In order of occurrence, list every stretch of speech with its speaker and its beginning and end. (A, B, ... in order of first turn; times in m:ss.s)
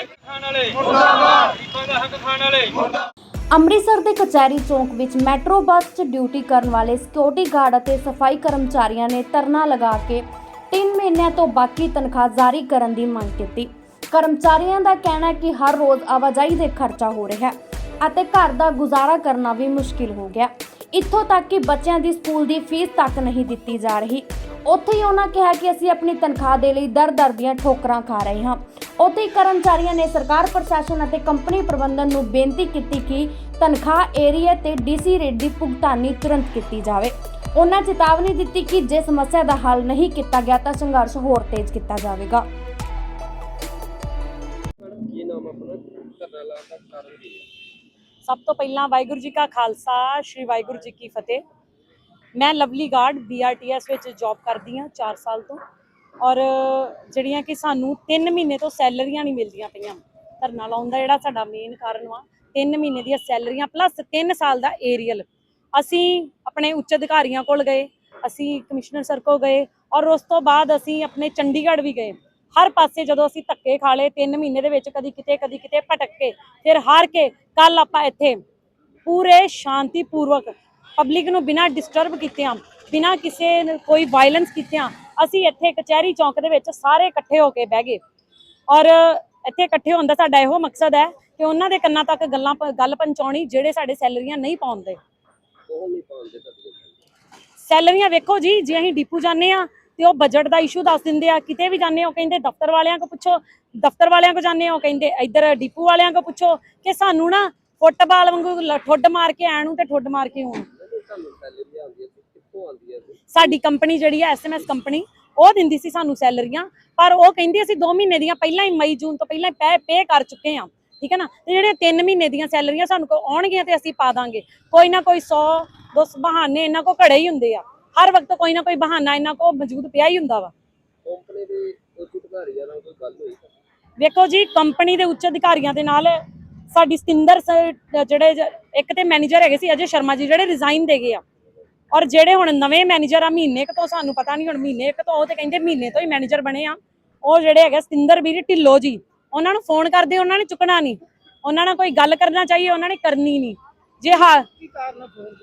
0:03.5-0:42.4 A
0:44.8-0:47.4 B
0:48.2-0:51.4 C
0:52.3-0:55.6 C
0:56.2-1:18.4 C
1:19.0-1:28.0 C
1:28.7-1:35.0 C
1:35.7-1:36.9 B
1:37.6-1:50.6 C
1:50.7-1:53.4 B
1:53.3-2:10.5 C
2:11.0-2:13.5 B
2:14.0-2:21.2 C
2:21.9-2:34.5 C